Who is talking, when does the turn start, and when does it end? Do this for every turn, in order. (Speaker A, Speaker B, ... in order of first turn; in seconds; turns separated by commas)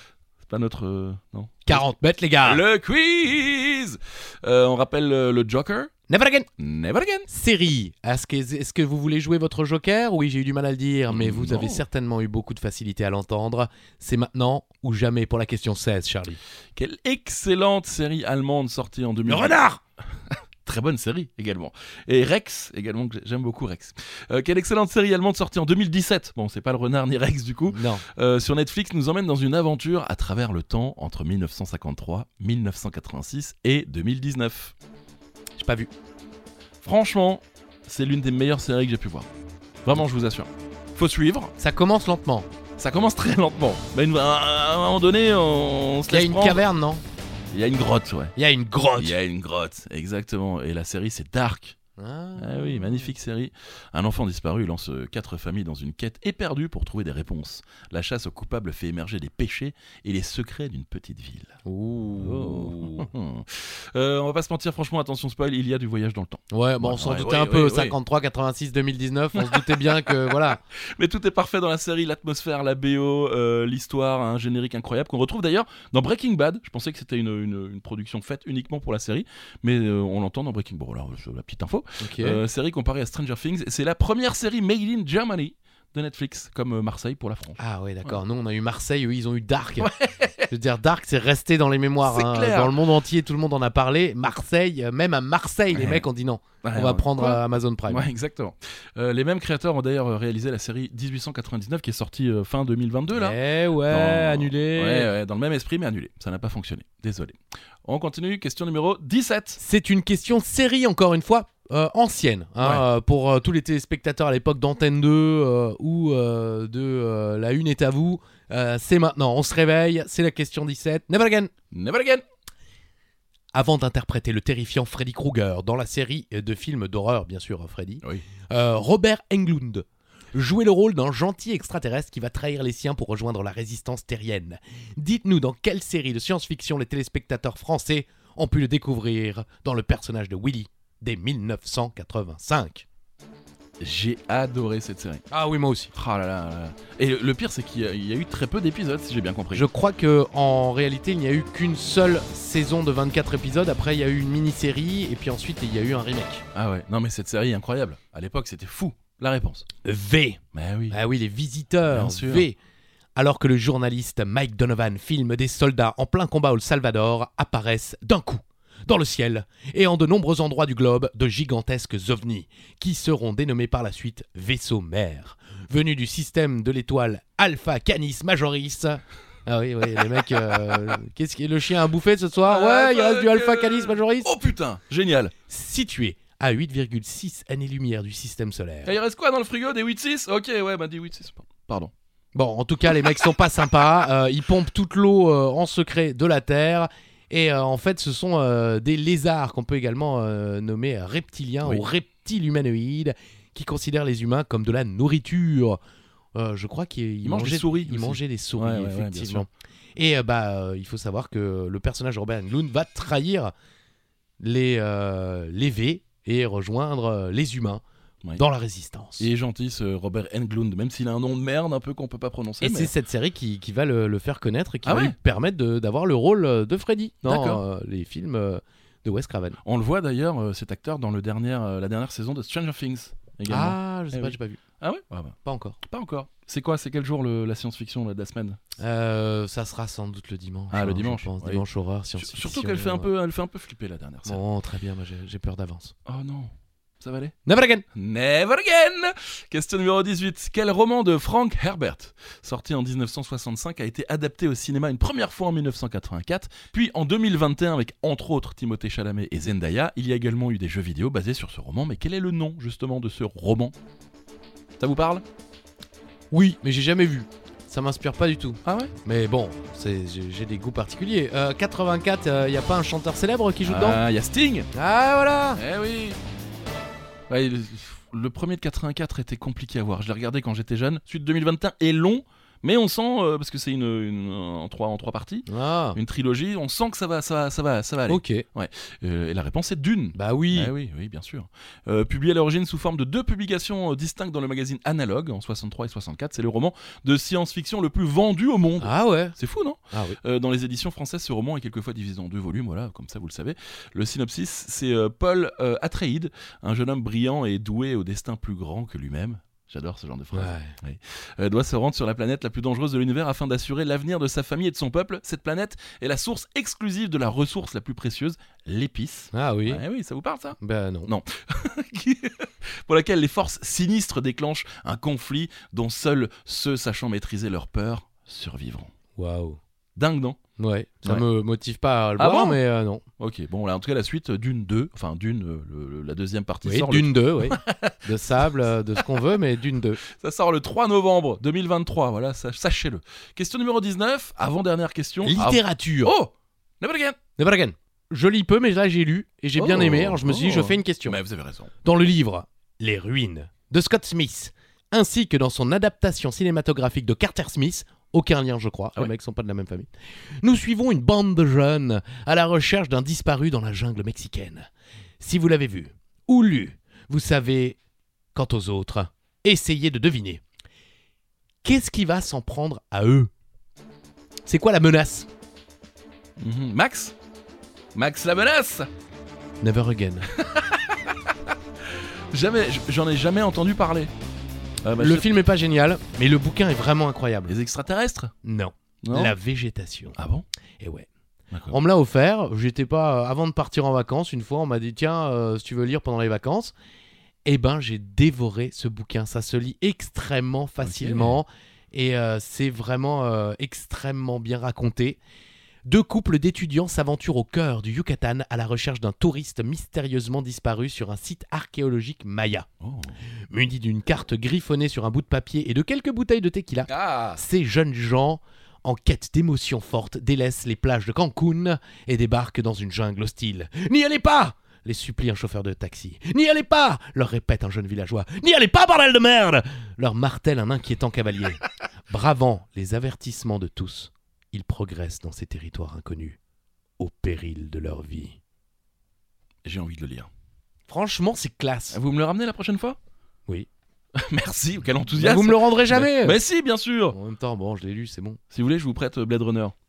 Speaker A: 0.4-1.9, Speaker B: 1.7-2.6, Speaker A: 2.4-5.9, Speaker B: 6.1-6.5, Speaker A: 6.6-7.3, Speaker B: 7.3-16.4, Speaker A: 11.1-11.8, Speaker A: 16.8-19.6, Speaker B: 19.3-19.8, Speaker A: 20.3-34.7, Speaker B: 27.7-28.0, Speaker B: 35.6-35.9, Speaker A: 36.8-39.3, Speaker A: 39.8-41.5, Speaker B: 41.6-42.5, Speaker A: 42.8-46.6, Speaker B: 46.1-47.0, Speaker A: 47.5-48.3, Speaker B: 48.4-49.1, Speaker A: 49.0-51.8, Speaker B: 52.0-53.1, Speaker A: 52.4-61.6, Speaker B: 61.6-63.1, Speaker A: 62.2-68.0, Speaker B: 66.5-70.6, Speaker A: 69.3-70.3, Speaker A: 70.9-88.2, Speaker B: 82.0-82.4, Speaker B: 87.6-89.9, Speaker A: 89.8-90.5, Speaker B: 90.5-98.0, Speaker A: 92.0-92.8, Speaker A: 95.7-96.0, Speaker A: 96.6-109.6, Speaker B: 103.1-105.1, Speaker B: 109.6-121.5, Speaker A: 121.7-122.2, Speaker B: 123.5-142.8, Speaker A: 143.8-145.2, Speaker B: 145.3-145.9, Speaker A: 145.9-149.7, Speaker B: 149.5-156.4, Speaker A: 156.5-159.7, Speaker B: 159.8-160.4, Speaker A: 160.5-161.0, Speaker B: 160.9-162.6, Speaker A: 161.9-162.5, Speaker B: 163.2-184.3, Speaker A: 180.0-180.9, Speaker A: 182.4-185.3, Speaker B: 185.5-188.9, Speaker A: 188.8-191.9, Speaker B: 192.3-205.8, Speaker B: 206.3-213.5, Speaker A: 207.2-209.5, Speaker B: 214.4-217.8, Speaker B: 218.3-219.3, Speaker A: 219.2-222.9, Speaker B: 222.6-229.6, Speaker A: 224.8-225.1, Speaker A: 227.2-227.6, Speaker A: 229.6-238.6, Speaker B: 233.5-234.6, Speaker B: 235.4-235.8, Speaker B: 238.8-243.1, Speaker A: 240.7-241.6, Speaker A: 242.2-244.4, Speaker B: 244.2-245.9, Speaker A: 246.1-247.3, Speaker B: 247.4-247.8, Speaker A: 247.9-263.7, Speaker A: 264.8-265.2, Speaker B: 266.3-274.0, Speaker A: 268.6-268.9, Speaker A: 273.6-274.7, Speaker B: 274.7-275.6, Speaker A: 275.6-276.2, Speaker A: 277.3-328.9, Speaker B: 285.5-286.0, Speaker B: 288.1-288.4, Speaker B: 290.1-290.7, Speaker B: 298.8-299.4, Speaker B: 299.9-300.2, Speaker B: 310.3-310.7, Speaker B: 319.3-319.8, Speaker B: 320.6-321.1, Speaker B: 329.2-329.6, Speaker A: 329.9-330.4, Speaker B: 330.6-333.0, Speaker A: 332.2-332.6, Speaker A: 333.2-339.1, Speaker B: 336.6-340.0, Speaker A: 340.0-347.2, Speaker B: 345.2-346.1, Speaker B: 347.4-351.2, Speaker A: 349.6-351.7, Speaker B: 351.8-359.9, Speaker B: 360.4-364.7, Speaker B: 365.2-367.8, Speaker B: 368.3-370.4, Speaker B: 371.6-373.3, Speaker B: 374.4-375.3, Speaker A: 376.4-377.1, Speaker A: 377.9-378.9, Speaker B: 379.6-380.3, Speaker A: 380.3-381.3, Speaker A: 381.9-384.1, Speaker A: 384.8-385.3, Speaker B: 385.0-387.5, Speaker A: 387.5-388.3, Speaker B: 388.4-390.1, Speaker A: 389.0-389.3, Speaker A: 390.1-390.4, Speaker B: 390.8-391.1, Speaker B: 391.7-396.7, Speaker B: 397.4-405.2, Speaker A: 400.8-401.4, Speaker B: 405.9-412.7, Speaker A: 412.8-413.1, Speaker B: 413.5-436.4, Speaker A: 416.9-417.4, Speaker B: 437.0-438.4, Speaker A: 439.6-440.3, Speaker B: 440.9-442.0, Speaker A: 441.9-443.0, Speaker A: 444.1-447.1, Speaker B: 445.1-446.4, Speaker B: 447.1-448.4, Speaker A: 448.5-449.7